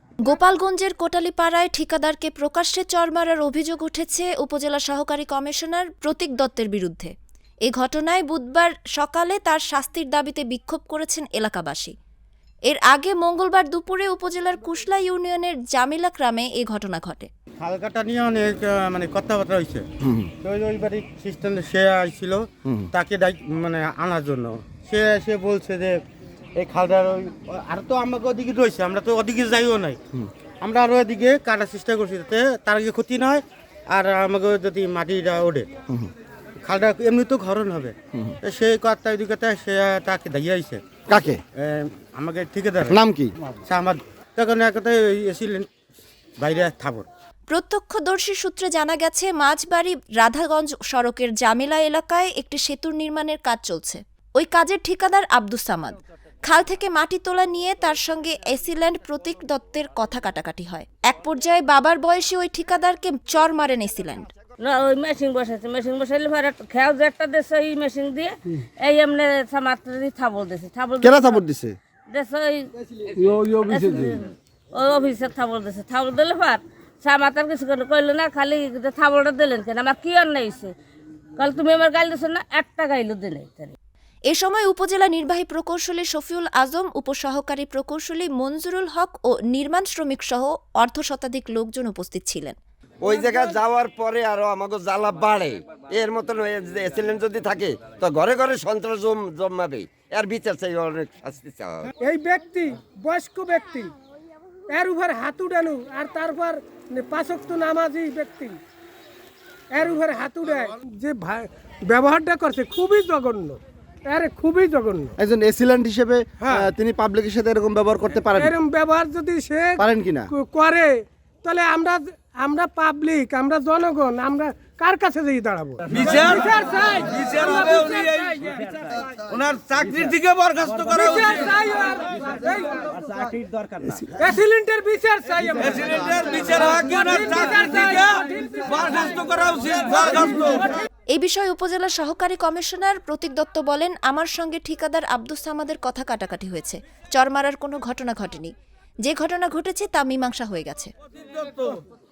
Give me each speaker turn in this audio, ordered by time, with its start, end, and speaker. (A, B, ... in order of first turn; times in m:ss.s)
0:00.2-0:07.1 A
0:07.6-0:11.9 A
0:12.7-0:17.3 A
0:17.6-0:26.0 B
0:26.6-0:30.0 B
0:30.6-0:35.7 B
0:36.6-0:41.0 B
0:41.1-0:41.4 C
0:41.6-0:45.7 B
0:42.9-0:43.3 C
0:46.4-0:47.1 B
0:47.5-1:04.3 A
1:04.6-1:11.4 D
1:11.0-1:11.8 C
1:12.1-1:20.7 D
1:21.4-1:23.7 D
1:24.3-1:32.6 A
1:33.0-1:34.0 C
1:33.7-1:41.8 E
1:34.9-1:36.3 C
1:37.2-1:38.1 C
1:39.6-1:41.2 C
1:42.0-1:43.9 F
1:44.7-1:48.6 F
1:49.7-1:55.1 F
1:55.2-1:58.4 C
1:56.4-1:56.7 F
1:58.3-2:08.7 F
1:59.8-2:00.3 C
2:05.9-2:06.4 G
2:07.2-2:08.3 G
2:09.2-2:11.4 G
2:10.8-2:13.0 F
2:14.1-2:20.6 F
2:15.7-2:18.0 G
2:18.6-2:20.7 G
2:21.1-2:30.9 A
2:31.2-2:31.8 G